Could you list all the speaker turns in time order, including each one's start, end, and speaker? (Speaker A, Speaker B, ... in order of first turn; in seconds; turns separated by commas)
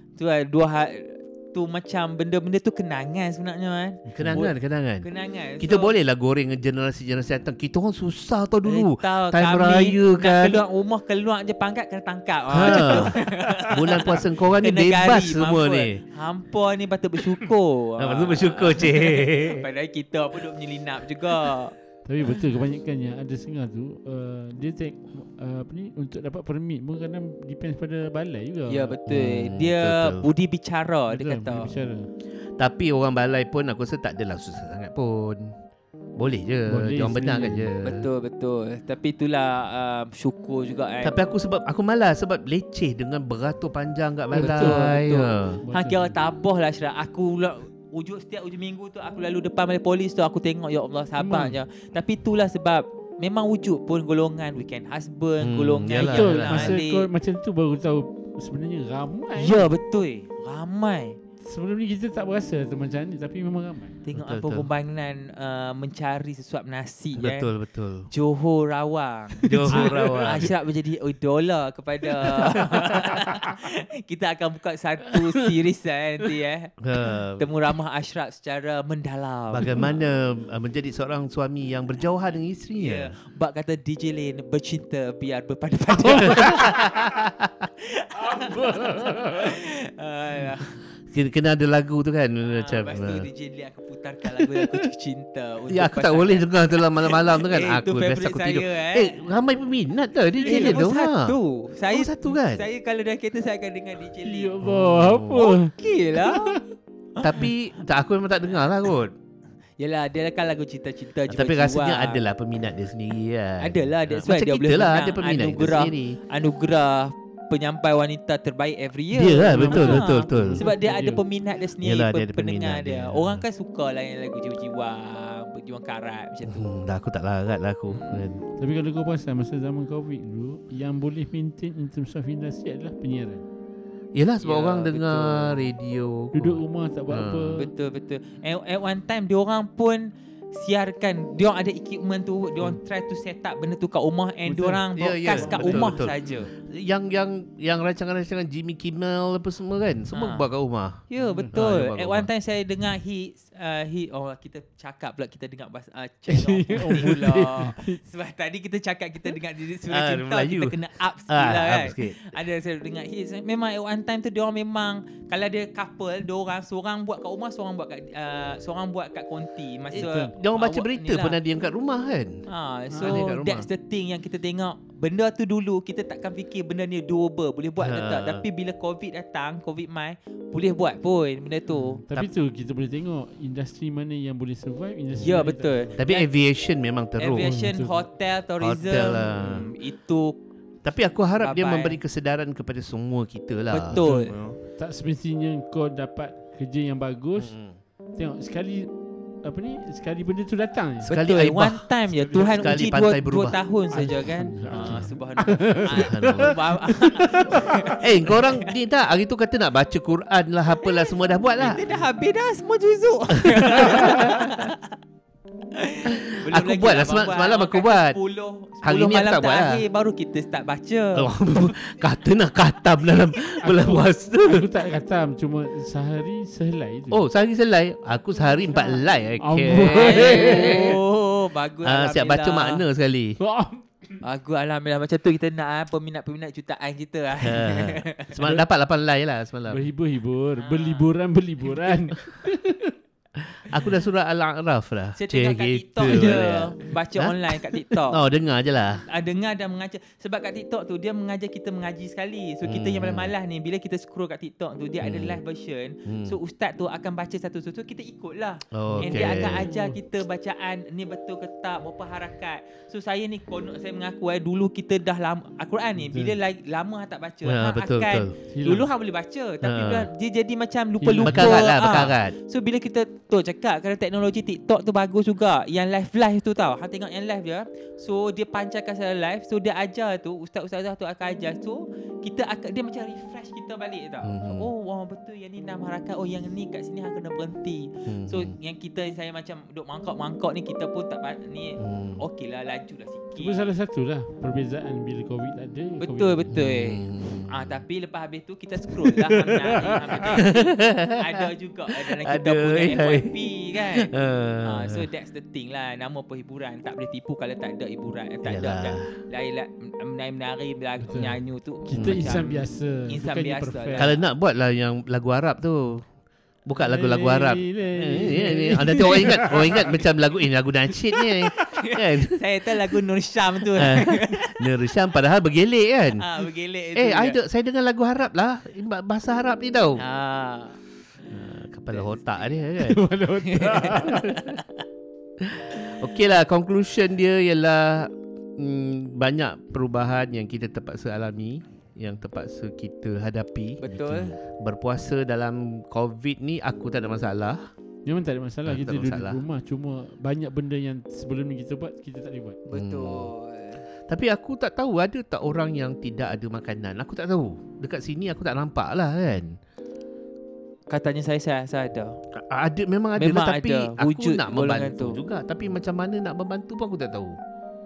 Speaker A: 0.2-5.9, Speaker B: 4.1-4.4, Speaker C: 4.1-5.1, Speaker C: 5.6-10.6, Speaker A: 8.7-21.8, Speaker C: 12.5-16.0, Speaker C: 18.0-19.6, Speaker B: 22.0-28.9, Speaker A: 28.7-31.7, Speaker C: 29.1-30.3, Speaker B: 31.1-32.1, Speaker C: 32.6-35.5, Speaker C: 36.2-38.0, Speaker B: 36.7-37.7, Speaker A: 37.8-41.2, Speaker C: 41.0-45.6, Speaker B: 44.3-45.0, Speaker A: 44.4-57.1, Speaker B: 45.6-46.1, Speaker B: 51.2-51.5, Speaker C: 55.4-56.8, Speaker B: 56.0-59.6, Speaker A: 59.4-61.2, Speaker B: 61.4-64.0, Speaker A: 64.0-67.5, Speaker C: 64.1-64.7, Speaker C: 67.2-68.1, Speaker A: 68.1-79.9, Speaker C: 69.4-70.5, Speaker B: 69.4-70.1, Speaker C: 72.3-73.1, Speaker C: 76.8-77.5, Speaker C: 79.5-83.1, Speaker A: 82.8-87.2, Speaker B: 86.0-86.4, Speaker C: 86.1-87.7, Speaker A: 87.8-90.8, Speaker B: 88.3-89.5, Speaker C: 91.1-93.3, Speaker A: 92.4-99.2, Speaker C: 95.7-101.4, Speaker B: 100.4-100.8, Speaker A: 100.4-104.6, Speaker C: 101.9-102.7, Speaker B: 104.2-106.6, Speaker C: 104.6-105.4, Speaker A: 105.3-106.6, Speaker A: 107.2-107.5, Speaker C: 107.2-109.1, Speaker A: 109.8-112.2, Speaker C: 111.3-116.2, Speaker A: 113.6-126.6, Speaker C: 119.1-120.6, Speaker B: 119.5-121.2, Speaker C: 121.8-123.4, Speaker C: 126.4-128.4, Speaker A: 127.9-128.2, Speaker B: 128.6-133.4, Speaker C: 134.1-137.6, Speaker A: 134.4-135.7, Speaker B: 136.3-137.7, Speaker A: 137.6-146.5, Speaker B: 144.5-144.8, Speaker C: 144.9-152.3, Speaker B: 145.3-146.3, Speaker A: 150.1-150.5, Speaker A: 151.1-171.4, Speaker B: 151.2-151.5, Speaker B: 156.3-158.0, Speaker C: 159.9-160.8, Speaker C: 161.3-162.2, Speaker B: 169.9-170.3, Speaker C: 169.9-172.4, Speaker A: 172.5-182.0, Speaker B: 172.9-173.2, Speaker C: 173.0-173.7, Speaker C: 177.8-178.4, Speaker B: 181.7-185.9, Speaker A: 185.2-186.3, Speaker C: 186.0-187.7, Speaker A: 187.2-190.4, Speaker B: 187.4-188.0, Speaker C: 188.6-189.7, Speaker C: 190.8-194.5, Speaker A: 191.4-192.0, Speaker A: 193.7-194.4, Speaker B: 193.9-197.5, Speaker C: 197.4-197.8, Speaker B: 198.2-201.1, Speaker C: 201.0-201.9, Speaker A: 201.1-208.7, Speaker B: 202.1-202.9, Speaker C: 202.6-203.6, Speaker B: 203.9-207.9, Speaker C: 204.7-205.1, Speaker C: 205.8-206.6, Speaker C: 208.0-211.8, Speaker A: 211.6-214.9, Speaker C: 213.4-214.6, Speaker A: 215.7-221.7, Speaker C: 216.1-218.2, Speaker C: 218.8-219.8, Speaker C: 221.1-224.7, Speaker B: 223.6-227.2, Speaker C: 227.1-231.0, Speaker A: 228.6-229.0, Speaker B: 229.4-231.0, Speaker A: 229.9-232.8, Speaker C: 231.8-233.4, Speaker B: 233.4-234.2, Speaker A: 234.2-238.4, Speaker C: 237.4-239.8, Speaker B: 239.7-242.9, Speaker A: 240.6-241.1, Speaker C: 243.3-249.0, Speaker A: 245.2-248.2, Speaker A: 249.1-293.6, Speaker C: 252.6-253.3, Speaker C: 255.0-255.4, Speaker C: 256.1-256.4, Speaker C: 258.7-259.7, Speaker B: 258.9-260.0, Speaker B: 266.0-266.3, Speaker C: 267.4-268.3, Speaker B: 268.5-268.9, Speaker C: 269.6-270.1, Speaker B: 271.0-271.6, Speaker C: 271.2-272.3, Speaker C: 284.2-284.7, Speaker C: 288.1-288.5, Speaker C: 291.8-292.2, Speaker B: 293.4-296.5, Speaker A: 296.0-304.1, Speaker C: 296.5-297.8, Speaker C: 298.9-305.1, Speaker A: 304.6-314.2, Speaker C: 308.4-309.1, Speaker B: 311.0-314.1, Speaker C: 311.9-312.4, Speaker C: 314.0-316.1, Speaker C: 316.6-322.4, Speaker B: 316.8-319.8, Speaker A: 319.2-320.0, Speaker A: 321.1-324.7, Speaker C: 323.7-326.3, Speaker A: 326.2-327.4, Speaker C: 326.9-330.0, Speaker A: 330.0-330.8, Speaker C: 331.3-333.0, Speaker A: 331.9-332.6, Speaker B: 332.8-334.6, Speaker A: 333.4-334.6, Speaker C: 335.4-347.7, Speaker A: 343.8-344.3, Speaker B: 343.9-344.3, Speaker B: 348.1-352.6, Speaker C: 348.6-349.4, Speaker A: 352.6-353.8, Speaker C: 352.7-353.3, Speaker C: 354.1-359.6, Speaker A: 360.9-362.1, Speaker C: 362.3-367.4, Speaker A: 363.2-365.2